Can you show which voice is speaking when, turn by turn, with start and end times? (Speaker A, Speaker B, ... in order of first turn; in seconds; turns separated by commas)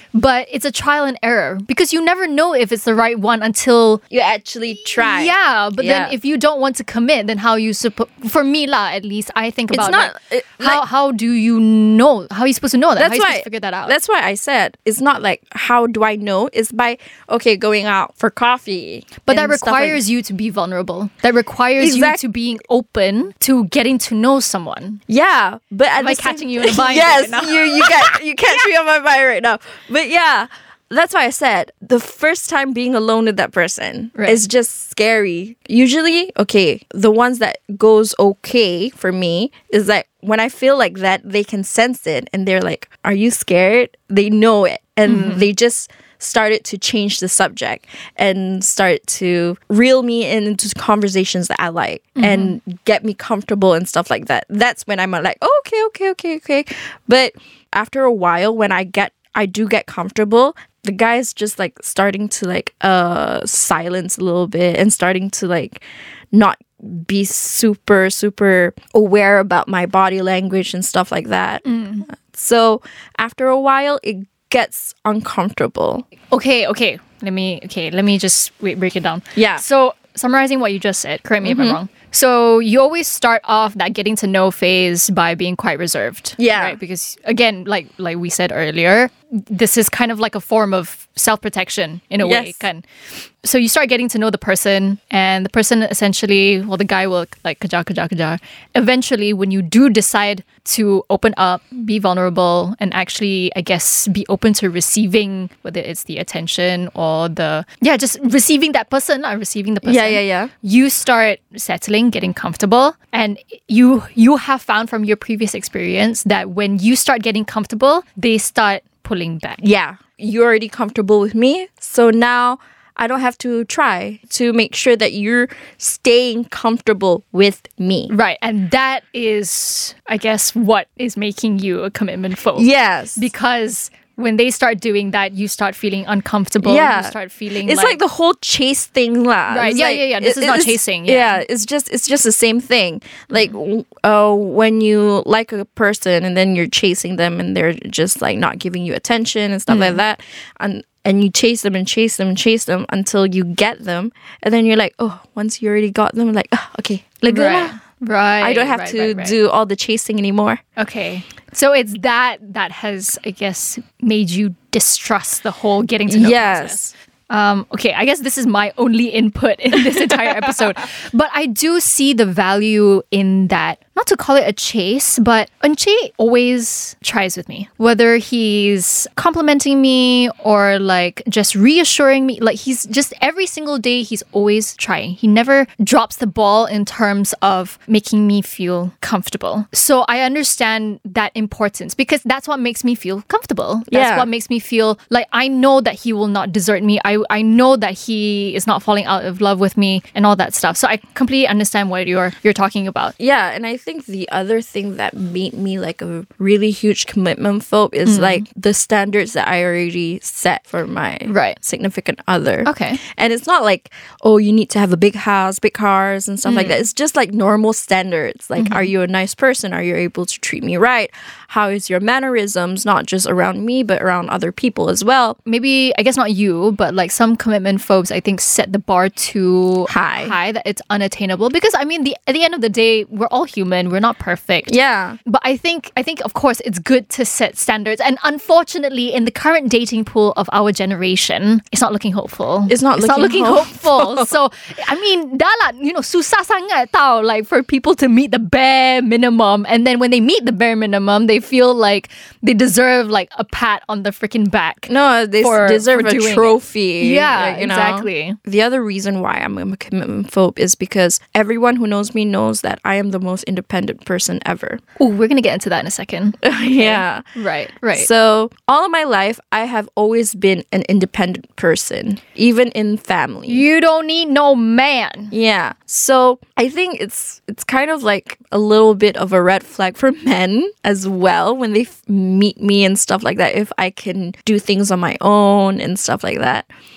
Speaker A: 0.1-4.0, Speaker B: 4.1-6.1, Speaker A: 5.0-14.0, Speaker B: 9.7-10.8, Speaker B: 13.0-20.0, Speaker A: 19.3-25.0, Speaker B: 21.8-22.2, Speaker B: 25.1-76.0, Speaker A: 26.0-28.2, Speaker A: 34.2-34.4, Speaker A: 45.1-45.5, Speaker A: 52.2-52.6, Speaker A: 71.6-72.1, Speaker A: 76.3-92.8, Speaker B: 79.3-79.7, Speaker B: 81.4-81.8, Speaker B: 86.4-86.8, Speaker B: 92.2-92.7, Speaker A: 93.4-119.6, Speaker B: 109.8-110.5, Speaker B: 119.6-128.1, Speaker A: 128.1-138.0, Speaker B: 132.6-133.3, Speaker B: 136.6-157.8, Speaker A: 139.5-141.4, Speaker A: 149.7-150.0, Speaker A: 157.3-159.4, Speaker B: 158.4-160.6, Speaker A: 160.8-203.2, Speaker B: 166.1-166.9, Speaker B: 193.9-194.3, Speaker B: 203.2-225.4, Speaker A: 208.1-208.4, Speaker A: 211.3-211.6, Speaker A: 212.7-213.0, Speaker A: 216.4-216.8, Speaker A: 218.6-218.9, Speaker A: 225.5-234.8, Speaker B: 229.9-230.3, Speaker B: 234.7-235.2, Speaker A: 235.3-258.4, Speaker B: 242.7-244.3, Speaker B: 254.9-264.8, Speaker A: 265.0-268.1, Speaker B: 266.4-267.2, Speaker B: 267.9-273.6, Speaker A: 273.5-275.3, Speaker B: 275.3-286.7